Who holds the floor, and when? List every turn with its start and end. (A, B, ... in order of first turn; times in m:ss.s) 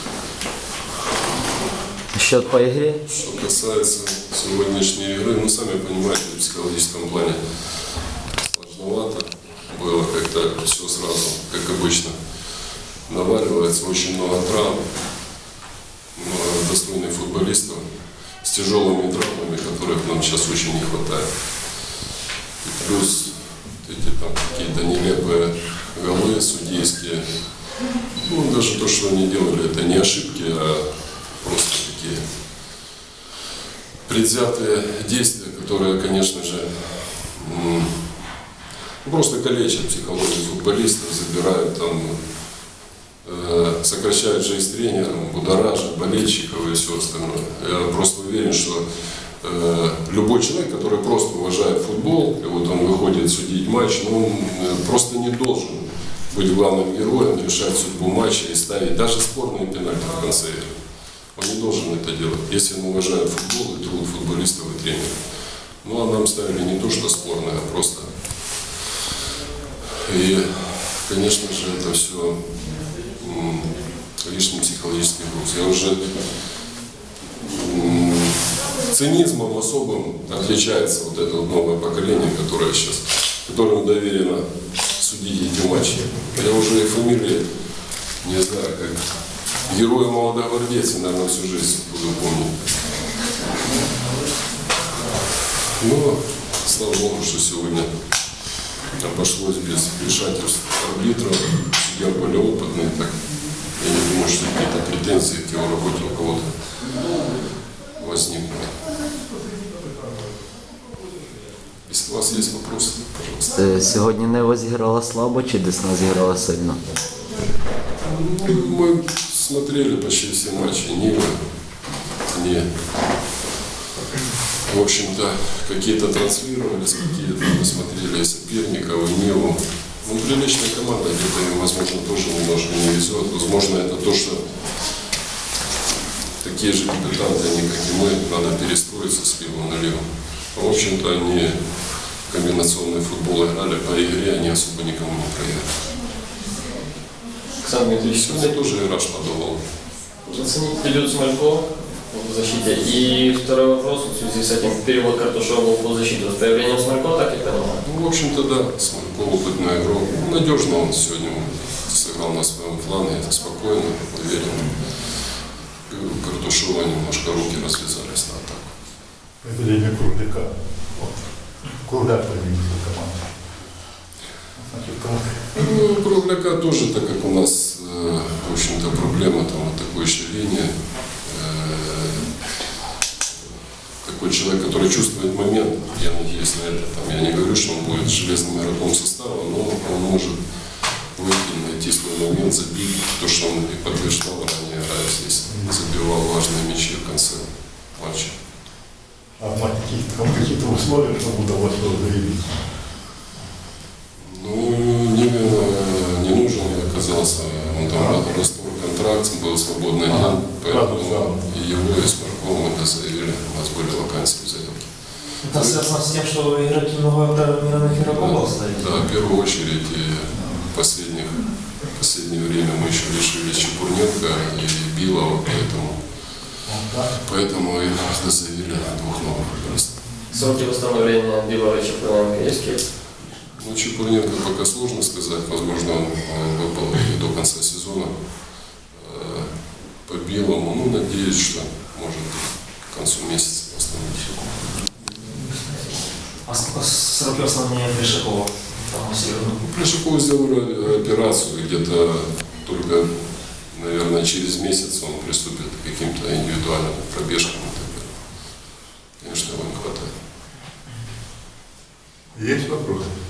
0:02.1-0:03.0 A
0:03.0-0:07.4 B
0:08.1-0:12.2 B
0:13.1-0:14.9 B
0:16.1-0:17.8 B
0:18.4-0:21.3 B
0:22.6-0:27.2 B
0:28.0-0:32.2 B
0:34.0-0:38.0 B
0:39.0-0:42.2 B
0:43.2-0:48.8 B
0:49.4-1:00.7 B
1:01.3-1:05.2 B
1:05.8-1:08.5 B
1:09.8-1:16.3 B
1:17.3-1:27.5 B
1:28.2-1:32.7 B
1:35.6-1:37.9 B
1:38.8-1:47.0 B
1:47.9-1:48.8 B
1:51.8-1:53.6 B
1:53.5-1:56.8 A
1:58.0-2:01.4 B
2:02.2-2:02.7 B
2:04.5-2:14.4 B
2:16.4-2:21.6 B
2:22.2-2:25.7 B
2:27.6-2:28.5 C
2:28.0-2:29.6 B
2:30.2-2:37.8 C
2:37.8-2:44.8 B
2:45.9-2:48.7 B
2:49.4-2:53.3 D
2:54.6-2:55.5 D
2:55.5-3:02.4 B
3:04.0-3:10.4 B
3:11.1-3:18.3 B
3:19.4-3:22.5 D
3:24.2-3:35.9 B
3:30.1-3:31.4 D
3:35.5-3:38.7 C
3:35.8-3:38.2 E
3:37.9-3:46.0 B
3:46.7-3:47.1 D
3:47.1-3:50.0 B
3:50.3-3:52.9 C
3:53.4-3:58.1 B
3:58.9-4:04.6 B
4:05.3-4:05.8 C
4:06.5-4:09.2 C
4:06.5-4:09.4 E
4:09.6-4:18.2 B
4:19.2-4:20.2 B
4:22.3-4:23.1 D